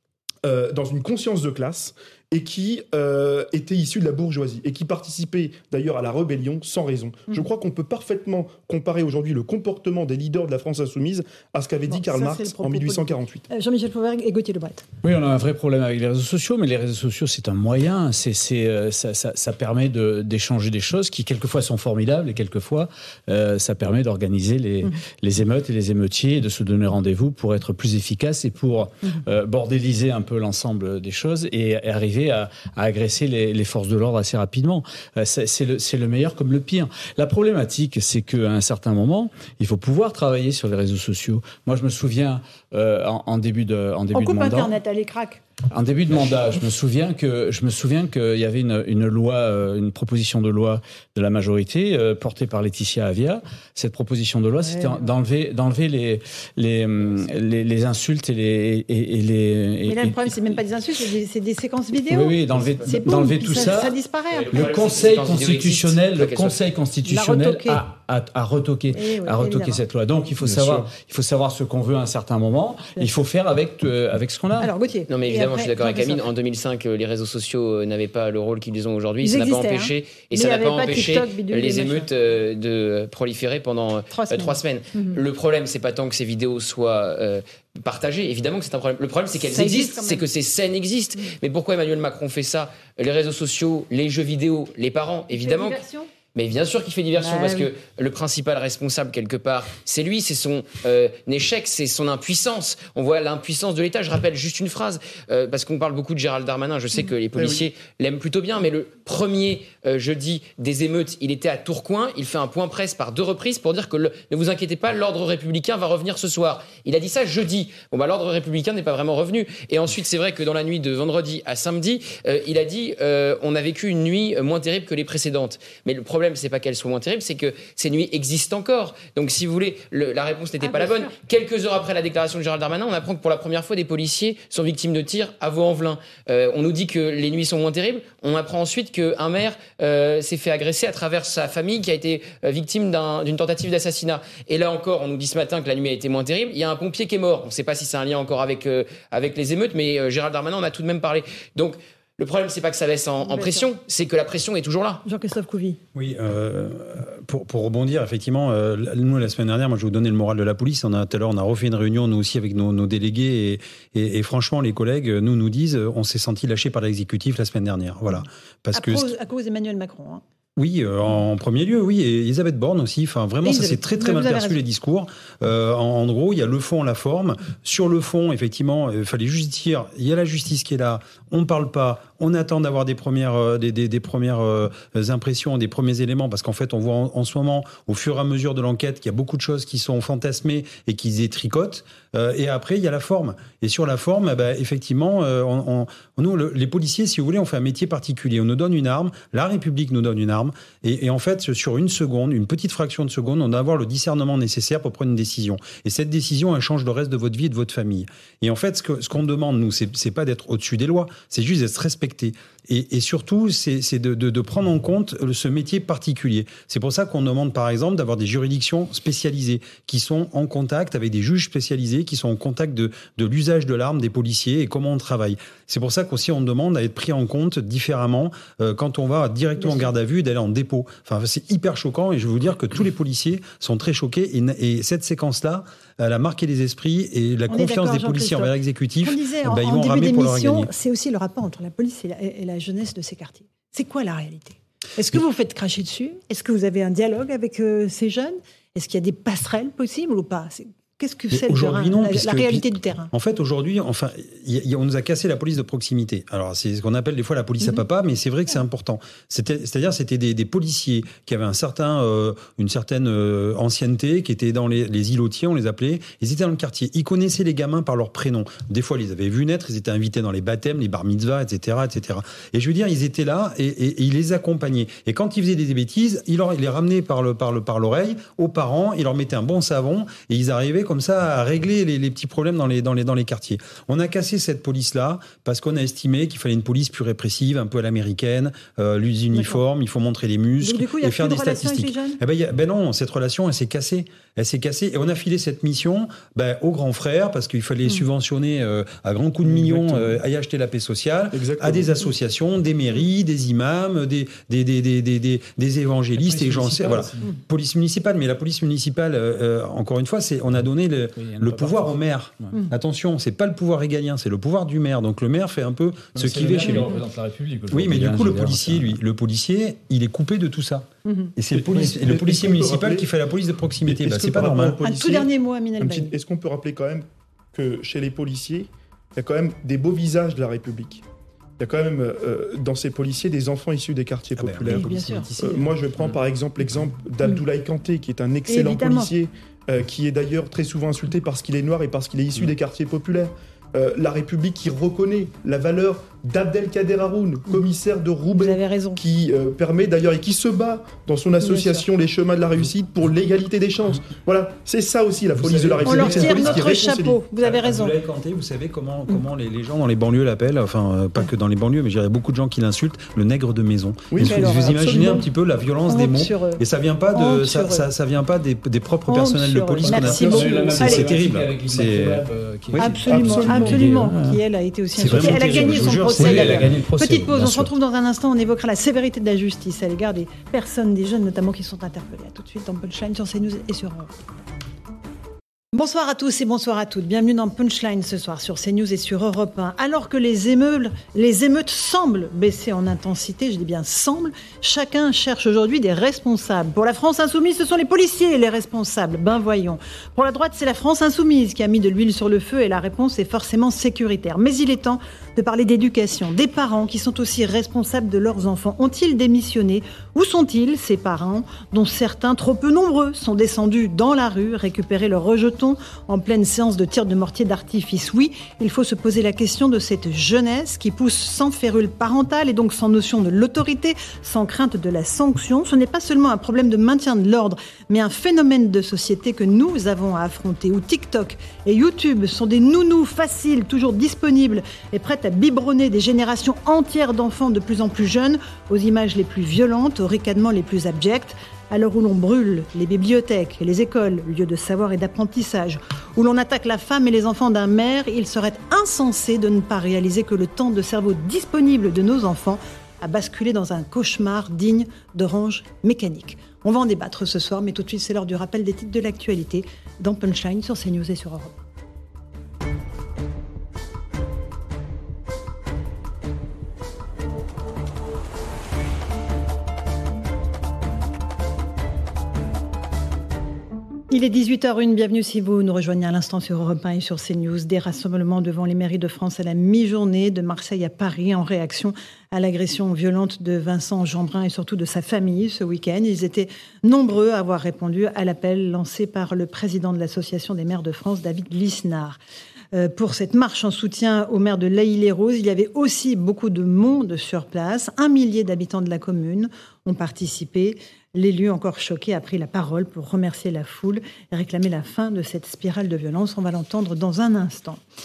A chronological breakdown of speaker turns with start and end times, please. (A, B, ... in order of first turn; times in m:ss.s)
0:00.4-0:13.5 A
0:11.9-0:14.8 B
0:15.0-0:44.7 C
0:44.1-0:45.4 B
0:45.7-1:00.4 C
0:54.6-0:55.1 B
0:59.9-1:04.6 B
1:02.1-1:04.0 C
1:04.3-1:06.6 D
1:04.5-1:14.7 C
1:07.0-1:07.8 B
1:08.9-1:09.8 B
1:14.6-1:16.3 B
1:15.1-1:35.8 D
1:19.2-1:22.1 B
1:24.1-1:25.2 B
1:29.4-1:30.3 B
1:35.3-1:36.1 B
1:36.3-2:35.0 D
1:37.2-1:37.7 B
1:47.4-1:47.6 A
2:10.6-2:11.2 B
2:33.2-2:33.7 B
2:35.0-2:35.8 B
2:35.9-2:49.1 E
2:48.7-2:50.2 B
2:50.6-4:00.7 E
2:53.4-2:54.6 B
3:49.6-3:49.9 B
3:57.5-4:13.1 B
4:11.3-5:17.0 E
4:49.3-4:49.6 B
4:50.6-4:52.2 B
5:01.3-5:02.0 A
5:06.2-5:07.2 C
5:11.2-5:12.6 C
5:16.1-5:19.0 C
5:16.6-5:17.0 B
5:17.7-5:24.8 E
5:21.0-5:21.3 B
5:21.5-5:23.1 A
5:23.8-5:31.0 A
5:24.8-5:26.1 B
5:31.6-5:57.2 A
5:34.4-5:35.7 E
5:34.6-5:35.3 B
5:38.5-5:39.1 B
5:48.3-5:49.0 B
5:51.4-5:51.9 B
5:55.4-5:56.7 E
5:55.8-5:58.0 B
5:57.4-6:12.2 E
6:04.1-6:05.2 A
6:04.2-6:05.2 B
6:05.9-6:07.9 B
6:09.1-6:11.2 B
6:09.8-6:14.4 C
6:12.8-6:24.1 B
6:13.0-6:13.7 A
6:13.1-6:13.8 E
6:15.0-6:16.8 E
6:15.0-6:17.7 C
6:25.7-7:41.6 B
7:54.1-8:12.2 B
8:12.7-8:27.8 B